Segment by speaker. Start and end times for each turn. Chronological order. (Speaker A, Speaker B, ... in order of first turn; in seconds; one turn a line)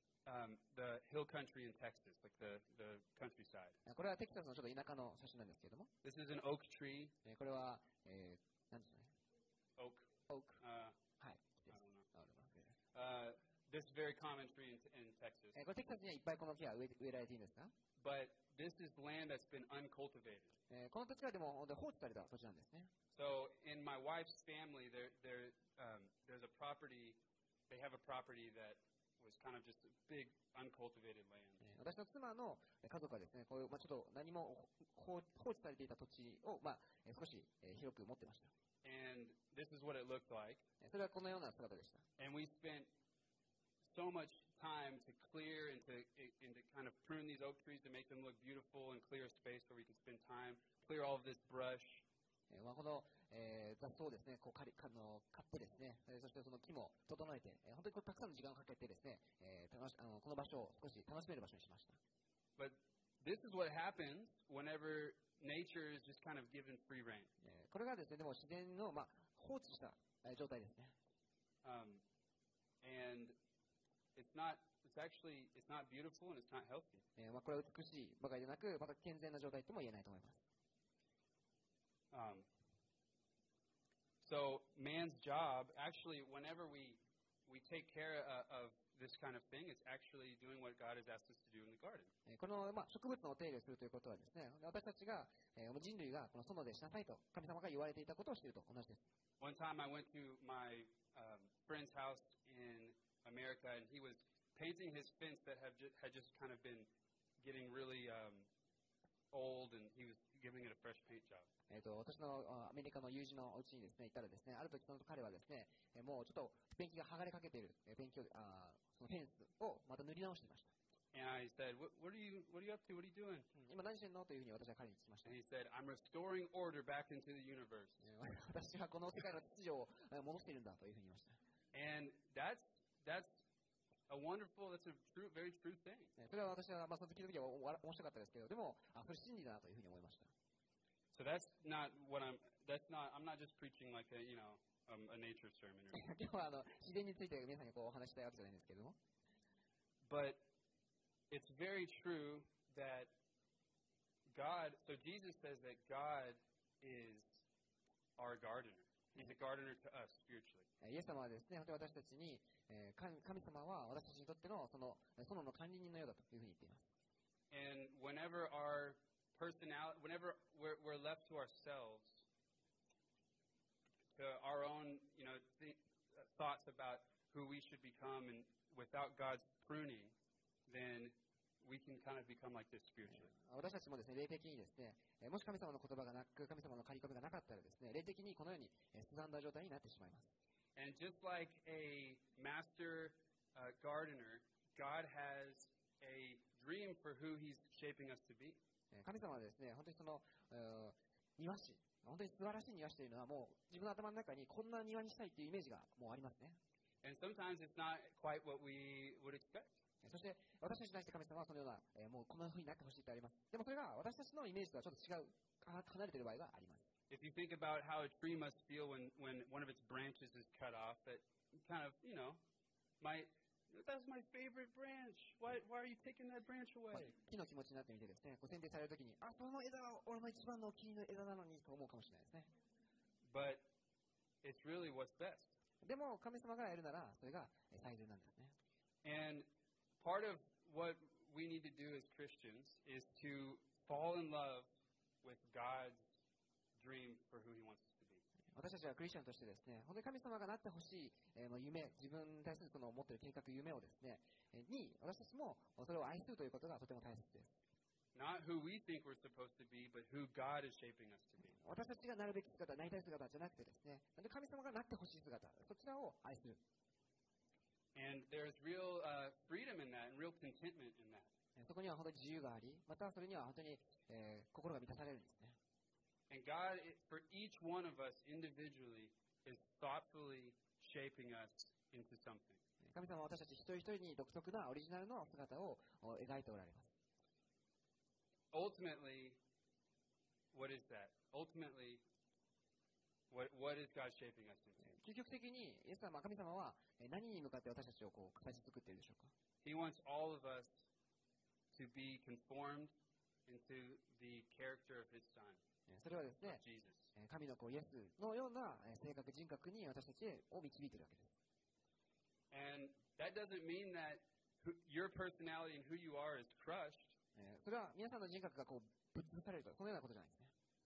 Speaker A: 0.3-3.8
Speaker B: 3.9-5.9
Speaker A: 6.0-7.2
Speaker B: 7.2-9.1
Speaker A: 9.8-10.1
Speaker B: 10.3-10.6
Speaker A: 10.6-11.0
Speaker B: 11.2-12.7
Speaker A: 11.7-12.1
Speaker A: 12.9-15.6
Speaker B: 15.6-17.7
Speaker A: 18.0-20.6
Speaker B: 20.7-22.9
Speaker A: 23.1-31.6
Speaker B: 31.6-38.5
Speaker A: 38.8-40.6
Speaker B: 40.8-42.0
Speaker A: 42.2-42.9
Speaker A: 43.8-52.0
Speaker B: 52.5-62.0
Speaker A: 62.6-67.3
Speaker B: 67.4-70.9
Speaker A: 71.6-72.0
Speaker A: 72.8-73.3
Speaker A: 74.2-77.1
Speaker B: 77.2-80.4
Speaker A: 82.1-82.5
Speaker A: 84.2-92.1
Speaker B: 92.3-99.0
Speaker A: 99.4-108.5
Speaker A: 109.3-111.5
Speaker B: 111.7-120.7
Speaker A: 121.1-123.5
Speaker B: 123.5-125.3
Speaker A: 125.2-128.1
Speaker B: 128.0-131.4
Speaker A: 131.7-133.4
Speaker A: 134.1-136.1
Speaker B: 136.2-140.3
Speaker A: 141.1-146.0
Speaker B: 145.9-149.0
Speaker A: 150.1-150.4
Speaker A: 151.3-153.1
Speaker A: 154.3-157.4
Speaker A: 158.2-160.7
Speaker B: 160.8-166.8
Speaker A: 167.5-172.2
Speaker A: 174.2-180.2
Speaker A: 180.7-183.3
Speaker B: 183.1-190.3
Speaker A: 190.8-198.6
Speaker B: 198.9-206.6
Speaker A: 207.0-209.8
Speaker B: 210.0-216.9
Speaker A: 217.1-222.4
Speaker A: 223.0-227.2
Speaker B: 226.9-232.5
Speaker A: 233.2-233.6
Speaker A: 234.4-235.5
Speaker B: 235.8-238.6
Speaker A: 239.0-239.5
Speaker A: 240.0-244.7
Speaker A: 245.2-246.0
Speaker A: 246.8-248.2
Speaker B: 248.5-257.5
Speaker A: 258.1-261.6
Speaker B: 261.6-266.6
Speaker A: 267.9-271.3
Speaker B: 271.6-275.6
Speaker A: 276.3-282.6
Speaker B: 282.8-286.9
Speaker A: 288.5-289.4
Speaker A: 290.5-292.0
Speaker A: 293.3-294.9
Speaker B: 294.8-299.3
Speaker A: 299.6-300.9
Speaker A: 301.7-302.9
Speaker A: 303.5-305.6
Speaker B: 305.9-306.6
Speaker A: 306.4-307.1
Speaker B: 307.1-311.3
Speaker A: 312.5-317.2
Speaker B: 317.4-320.5